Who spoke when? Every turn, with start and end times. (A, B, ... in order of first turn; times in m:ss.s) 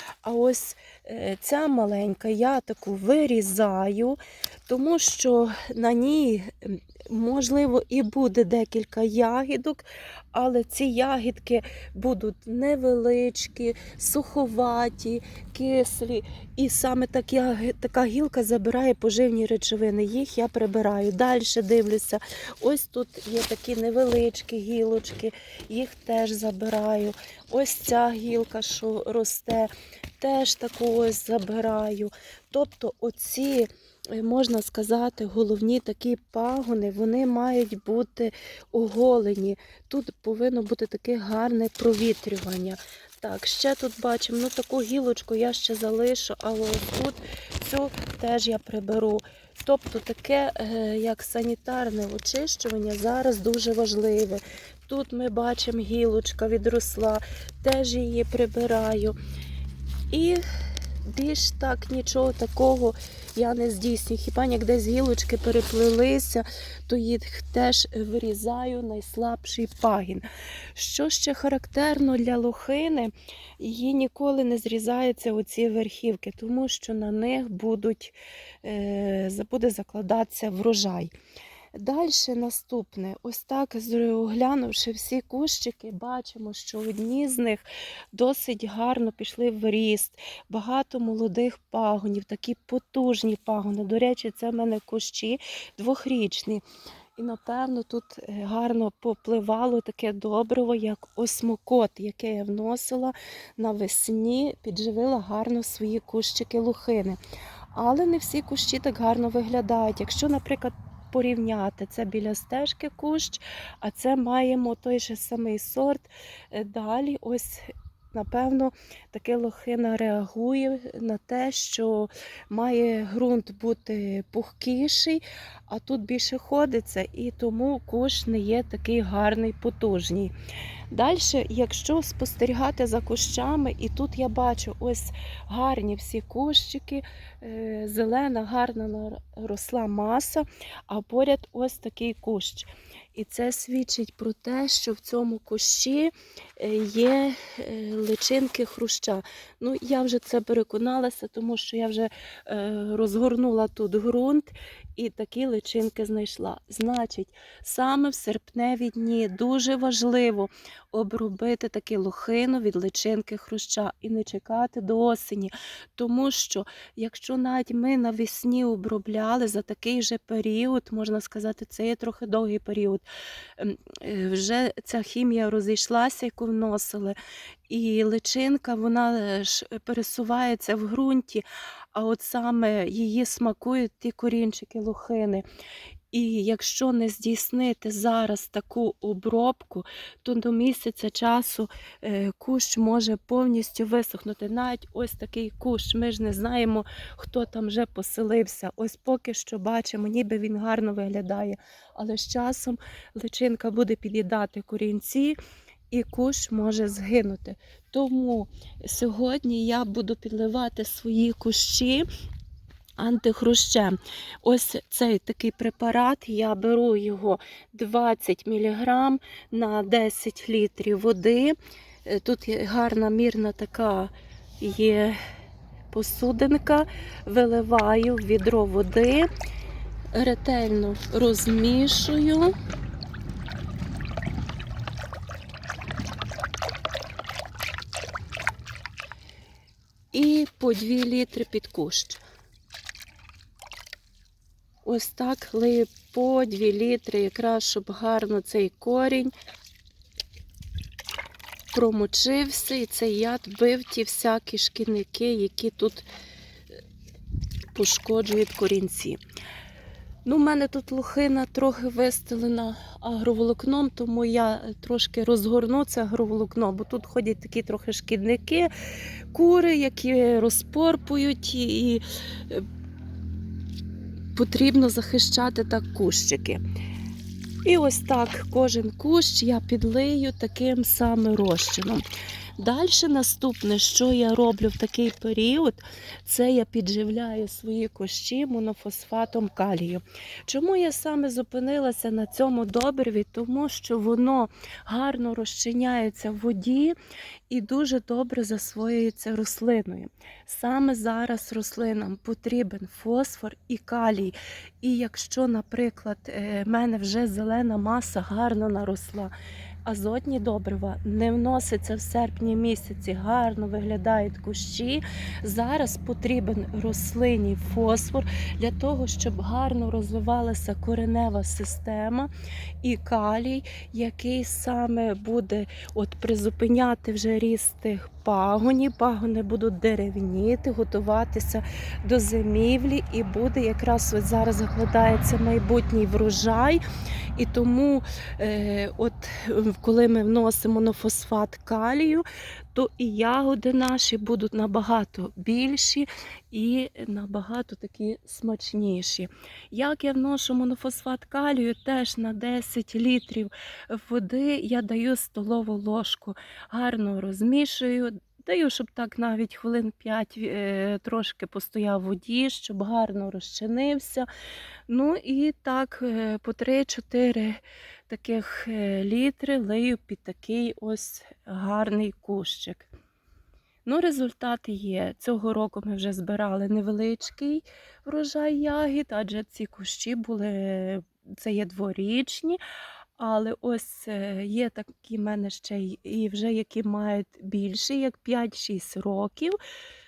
0:00.2-0:59.2 A
1:00.1-1:00.4 A
1:01.1-1:21.1 A
1:21.7-1:36.6 A
1:37.2-1:47.2 A
1:47.7-2:10.3 A
2:10.9-2:53.0 A
2:53.6-2:57.2 A
2:57.7-3:05.4 A
3:06.1-3:25.4 A
3:25.9-3:32.1 A
3:33.0-3:45.2 A
3:45.9-3:49.3 A
3:50.1-3:52.5 A
4:00.1-4:02.2 A
4:04.8-4:09.3 A
4:11.7-4:16.1 A
4:17.7-4:19.2 A
4:20.2-4:28.7 A
4:29.3-4:32.7 A
4:34.4-4:36.6 A
4:37.6-4:42.0 A
4:42.6-4:57.0 A
4:57.5-5:09.3 A
5:09.9-5:22.3 A
5:22.8-5:36.8 A
5:37.4-6:04.3 A
6:04.9-6:12.9 A
6:13.9-6:22.6 A
6:23.2-6:29.6 A